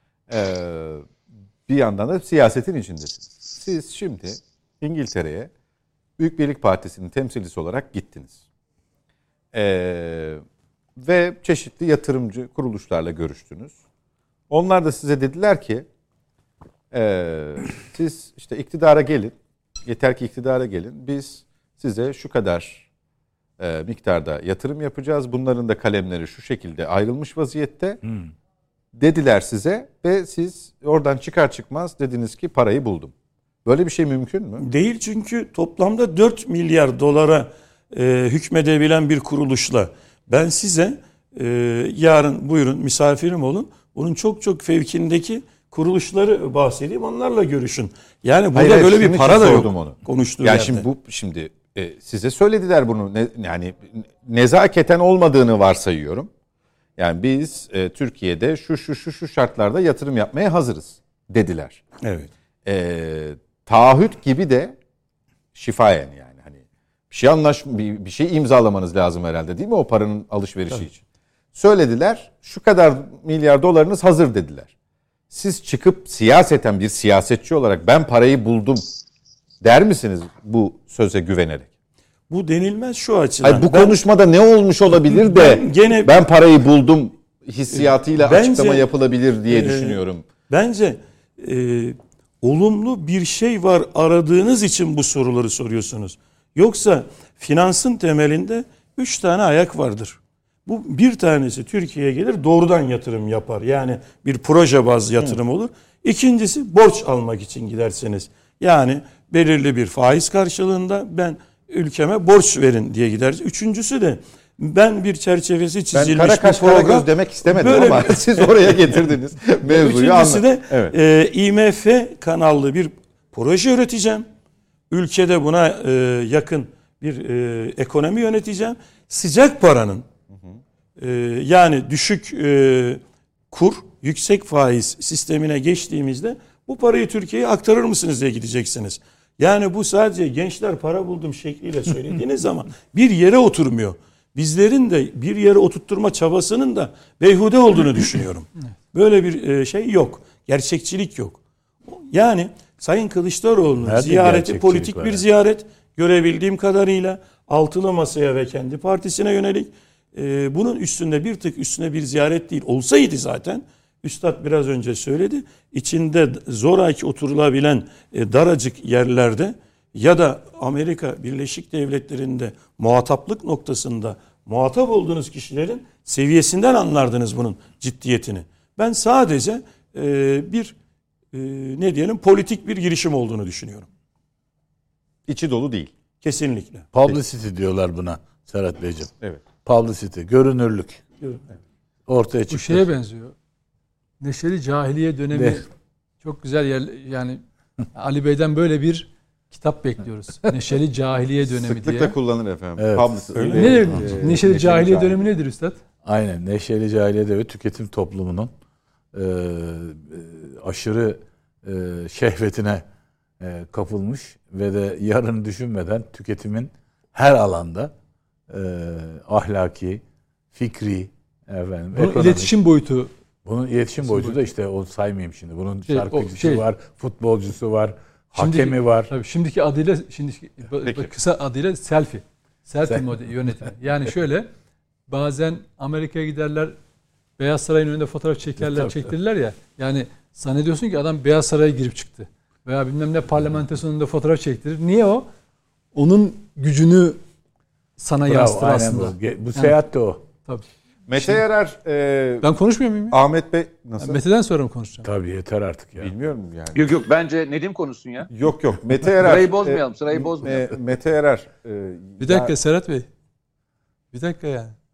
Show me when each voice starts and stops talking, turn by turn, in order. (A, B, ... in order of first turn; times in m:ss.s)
0:00.3-0:01.0 A
0:01.7-0:05.5 A
0:06.2-0:08.4 A
0:09.5-0:10.4 A
0:11.0-0:13.8 A
0:14.5-0:15.9 A
0:16.9-0:22.8 A
0:23.6-0:28.0 A
0:28.9-0:33.1 A
0:33.6-0:34.6 A
0:34.6-0:50.9 B
0:48.6-0:56.3 A
0:57.0-1:01.8 A
1:02.0-1:02.3 B
1:02.6-1:04.8 A
1:05.6-1:06.6 A
1:07.1-1:11.0 A
1:11.5-1:14.7 A
1:15.3-1:18.8 A
1:19.6-1:21.7 A
1:22.3-1:24.0 B
1:23.4-1:30.2 A
1:25.0-1:26.2 B
1:27.7-1:28.9 B
1:29.5-1:59.1 B
1:55.9-2:00.9 A
1:59.6-2:04.3 B
2:04.9-2:10.0 B
2:11.0-3:00.7 B
2:33.8-2:35.2 C
3:01.3-3:03.9 B
3:05.3-3:05.9 A
3:06.2-3:06.9 B
3:06.9-3:09.1 C
3:09.6-3:11.0 C
3:12.1-3:12.9 C
3:12.5-3:13.4 D
3:14.2-3:15.7 D
3:15.3-3:15.6 C
3:16.2-3:17.4 D
3:17.9-3:22.1 D
3:21.7-3:25.2 A
3:22.8-3:24.6 C
3:23.3-3:23.8 B
3:23.5-3:25.8 D
3:26.0-3:28.5 C
3:29.1-3:32.8 C
3:33.4-3:37.9 C
3:38.5-3:42.5 C
3:41.9-3:43.1 D
3:43.4-3:49.1 C
3:44.0-3:44.4 D
3:45.9-3:46.6 D
3:48.3-3:54.5 D
3:50.8-3:51.1 A
3:55.1-3:56.7 D
3:57.4-4:05.3 D
3:58.6-3:59.1 C
4:05.9-4:07.2 D
4:08.0-4:09.8 D
4:08.2-4:10.2 C
4:11.1-4:12.5 A
4:12.4-4:13.2 D
4:13.1-4:14.2 A
4:14.0-4:15.1 D
4:15.0-4:16.1 C
4:16.0-4:16.9 A
4:16.7-4:18.3 E
4:18.3-4:22.5 A
4:19.2-4:20.7 E
4:22.2-4:23.1 D
4:24.1-4:24.7 D